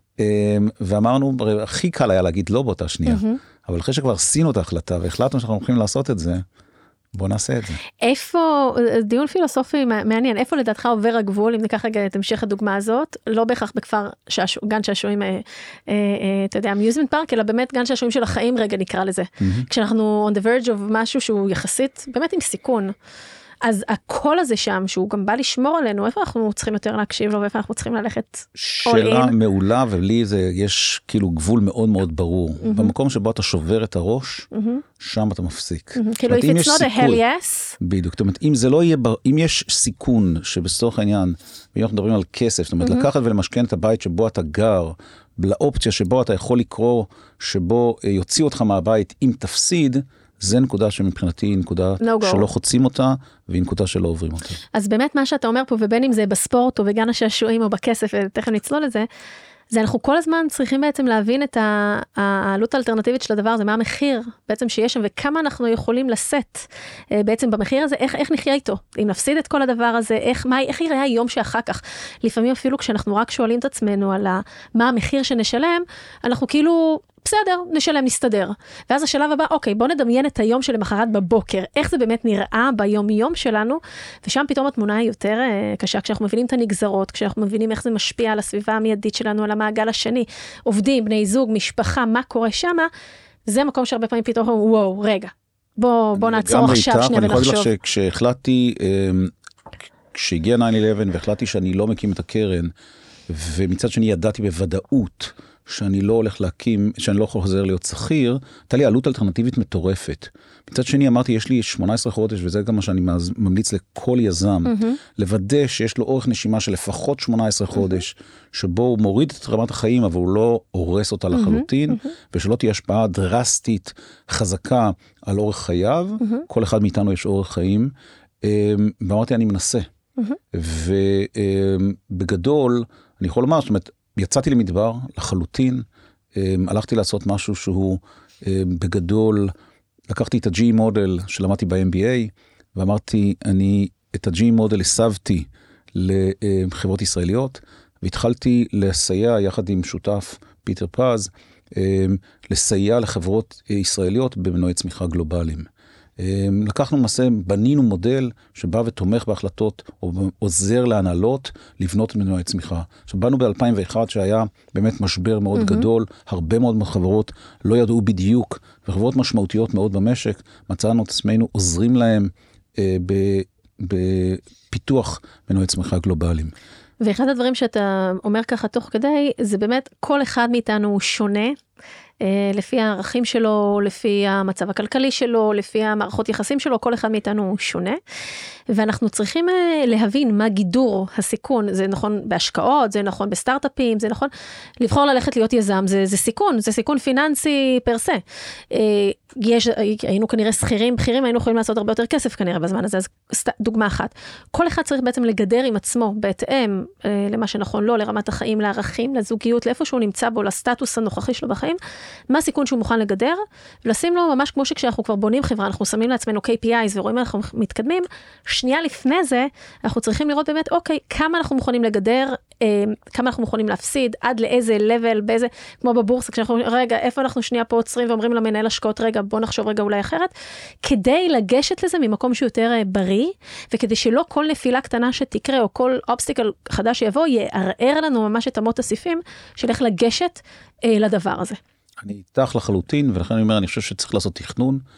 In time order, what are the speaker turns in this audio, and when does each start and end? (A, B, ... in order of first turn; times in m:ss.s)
0:00.2-0:06.4 A
0:03.0-0:03.4 B
0:07.1-0:07.8 A
0:08.0-0:22.9 B
0:19.4-0:19.7 A
0:23.6-0:29.3 B
0:28.6-0:34.5 A
0:32.6-0:32.9 B
0:34.5-0:34.8 B
0:35.0-0:37.2 A
0:35.9-0:37.8 B
0:37.8-0:54.6 A
0:52.0-0:52.5 B
0:54.7-0:59.1 B
0:59.7-1:32.9 B
1:33.5-1:37.7 B
1:36.2-1:39.3 A
1:40.1-1:42.7 A
1:43.3-2:09.9 A
1:54.6-1:55.0 B
2:01.3-2:02.1 B
2:10.5-2:19.5 A
2:20.1-2:35.7 A
2:36.2-2:56.5 A
2:45.6-2:45.8 B
2:57.0-3:01.6 B
3:02.2-3:08.0 B
3:08.7-3:31.8 B
3:32.3-3:50.3 B
3:50.8-4:01.6 B
4:02.0-4:04.8 A